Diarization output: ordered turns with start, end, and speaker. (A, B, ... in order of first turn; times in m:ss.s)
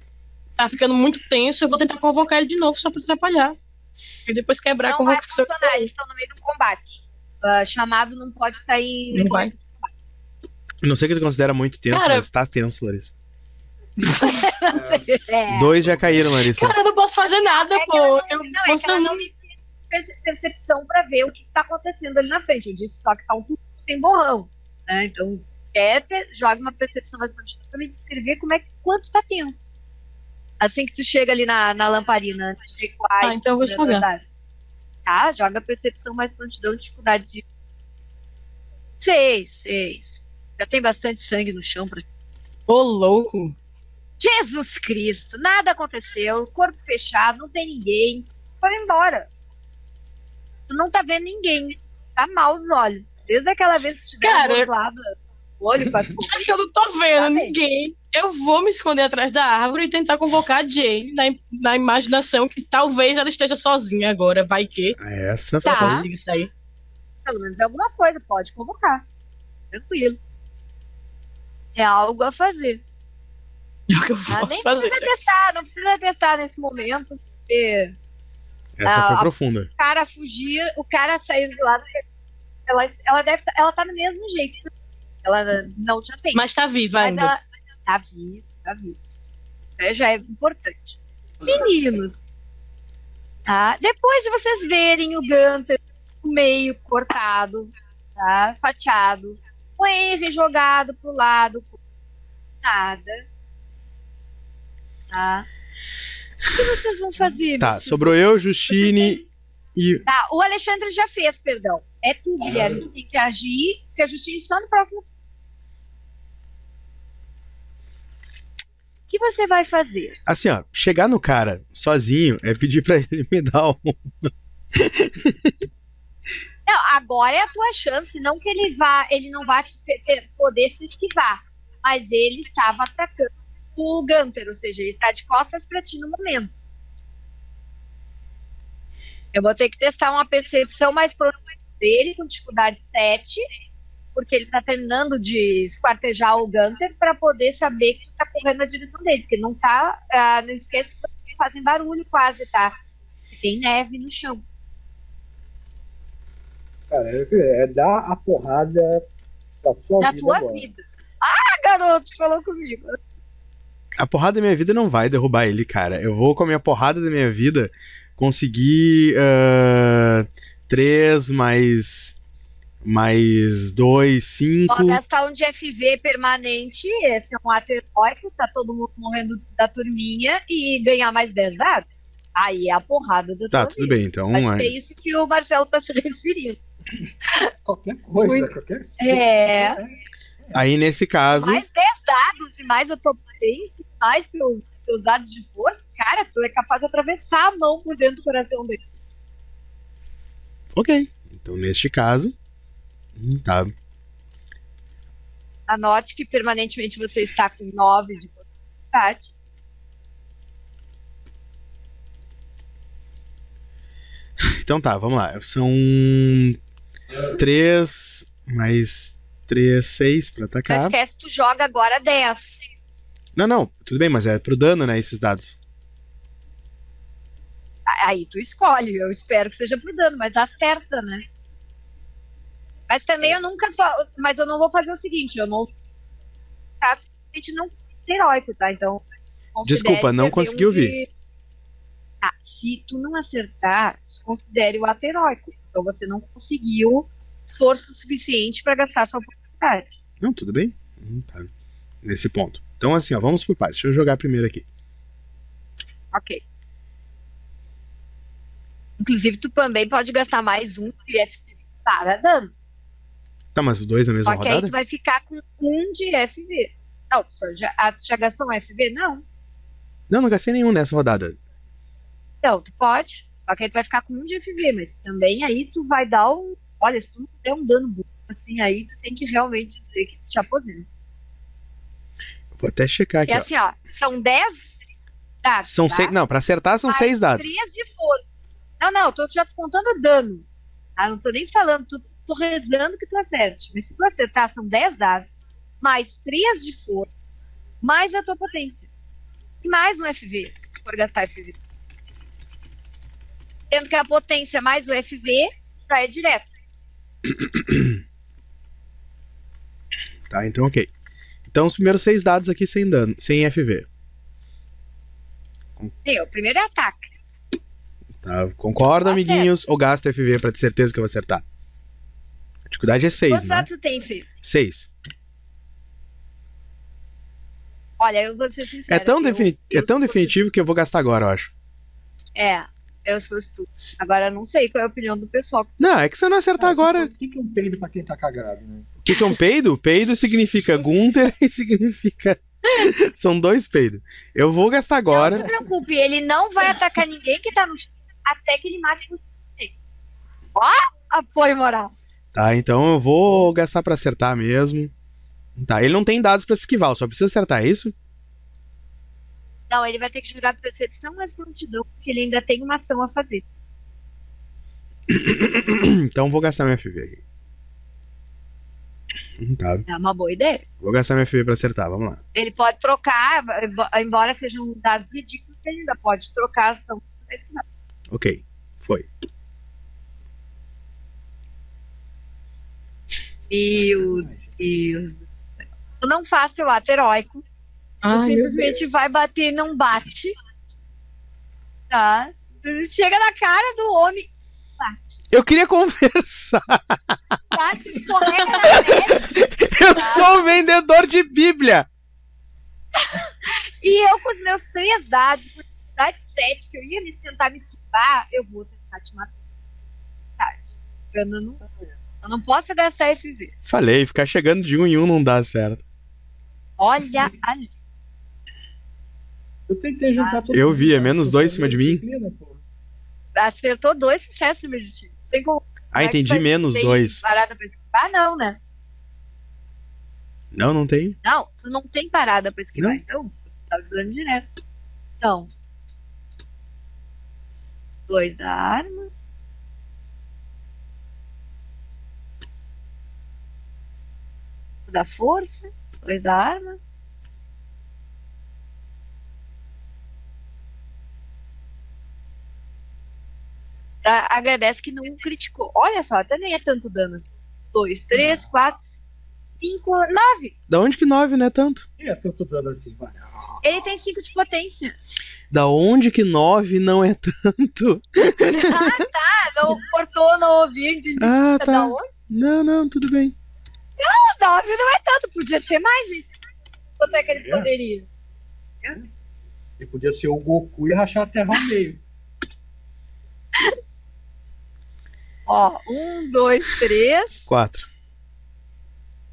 0:00.6-0:03.6 A
0:04.3-0:05.9 A
0:04.8-0:09.9 B
0:09.1-0:09.5 A
0:10.8-0:13.1 C
0:11.9-0:12.3 A
0:14.0-0:15.8 B
0:14.7-0:15.0 D
0:15.5-0:16.8 C
0:15.8-0:16.4 D
0:16.5-0:19.2 A
0:17.6-0:29.7 B
0:30.6-0:34.2 B
0:33.2-0:34.1 A
0:35.1-0:37.4 B
0:39.0-0:42.0 B
0:42.7-0:43.6 A
0:44.2-0:49.3 B
0:50.7-0:56.5 B
0:54.2-0:54.7 A
0:56.3-1:05.0 A
0:57.2-0:57.6 B
1:05.0-1:06.1 C
1:05.6-1:06.1 B
1:05.6-1:06.5 A
1:07.2-1:09.0 B
1:09.7-1:10.2 B
1:11.8-1:12.8 B
1:13.9-1:15.1 A
1:14.3-1:18.0 B
1:18.8-1:19.7 C
1:18.9-1:22.0 B
1:22.7-1:24.7 B
1:25.2-1:29.0 B
1:26.3-1:27.3 A
1:29.8-1:32.3 B
1:33.5-1:41.8 B
1:42.6-1:43.3 B
1:45.1-1:45.5 B
1:46.5-1:48.2 B
1:47.6-1:49.2 C
1:48.7-1:49.2 B
1:49.8-1:50.0 C
1:50.0-1:55.1 B
1:59.1-2:00.2 B
2:00.3-2:05.6 C
2:06.7-2:16.5 B
2:19.3-2:23.5 B
2:24.2-2:32.7 B
2:33.3-2:34.4 B
2:36.9-2:39.0 D
2:39.6-2:40.7 D
2:40.0-2:43.0 B
2:44.0-2:52.1 C
2:52.8-2:55.0 C
2:54.7-3:06.6 B
3:03.5-3:04.7 C
3:07.6-3:10.6 D
3:08.2-3:08.5 B
3:09.0-3:09.8 B
3:10.5-3:11.6 C
3:11.4-3:18.8 B
3:20.8-3:22.3 C
3:23.2-3:23.7 C
3:25.7-3:28.4 B
3:28.9-3:29.3 B
3:34.4-3:36.6 C
3:37.3-3:41.0 C
3:40.7-3:42.6 B
3:43.4-3:45.6 C
3:47.9-3:51.3 B
3:52.9-3:55.7 B
3:56.8-3:59.0 B
3:59.6-4:01.1 B
3:59.7-4:01.0 C
4:02.2-4:09.9 B
4:10.2-4:11.5 C
4:12.0-4:14.6 C
4:16.1-4:16.4 B
4:19.0-4:22.5 B
4:23.6-4:24.7 C
4:24.3-4:29.2 B
4:30.1-4:31.4 C
4:32.4-4:40.9 B
4:42.6-4:43.5 C
4:43.3-4:44.8 B
4:45.4-4:46.2 B
4:45.7-4:47.5 C
4:46.9-4:50.4 B
4:51.0-4:57.1 B
4:57.8-4:58.9 B
4:59.6-5:01.6 B
5:03.7-5:06.5 B
5:07.4-5:08.0 C
5:10.3-5:10.9 C
5:11.5-5:13.9 C
5:16.0-5:17.0 B
5:18.2-5:21.4 C
5:19.0-5:19.5 B
5:22.7-5:23.7 C
5:23.3-5:24.3 B
5:24.4-5:24.9 C
5:28.0-5:30.4 B
5:28.9-5:31.5 C
5:32.4-5:35.8 B
5:35.8-5:37.1 C
5:36.6-5:38.9 D
5:39.0-5:45.5 C
5:45.1-5:49.7 B
5:50.6-5:51.9 B
5:52.3-5:54.9 C
5:55.6-5:57.9 C
5:59.7-6:03.4 B
6:05.1-6:07.2 C
6:09.4-6:09.9 C
6:09.9-6:10.6 B
6:10.8-6:12.2 C
6:12.3-6:17.6 B
6:18.1-6:19.1 C
6:23.5-6:25.3 B
6:23.6-6:24.6 D
6:26.0-6:27.4 B
6:28.0-6:28.8 A
6:28.1-6:30.4 B
6:31.9-6:34.3 B
6:34.8-6:35.2 B
6:35.3-6:37.2 C
6:37.5-6:39.3 B
6:38.7-6:41.9 C
6:40.0-6:40.3 B
6:43.0-6:49.3 B
6:50.4-6:51.6 B
6:52.2-6:53.5 B
6:53.7-6:55.8 C
6:56.8-6:57.7 B
6:59.7-7:02.6 D
7:00.5-7:02.0 C
7:03.4-7:08.6 B
7:05.9-7:07.2 C
7:10.5-7:11.2 C
7:11.2-7:14.5 B
7:15.2-7:15.5 B
7:18.1-7:19.1 B
7:24.9-7:26.8 B
7:34.0-7:39.0 B
7:38.1-7:38.5 D
7:39.6-7:40.5 B
7:40.7-7:41.8 C
7:42.0-7:43.7 D
7:43.6-7:45.0 B
7:45.5-7:49.0 C
7:48.5-7:52.1 B
7:51.2-7:53.3 C
7:54.0-7:56.3 B
7:57.0-7:58.1 B
7:57.1-7:57.7 D
7:59.8-8:02.0 D
8:05.5-8:07.5 B
8:07.5-8:07.9 C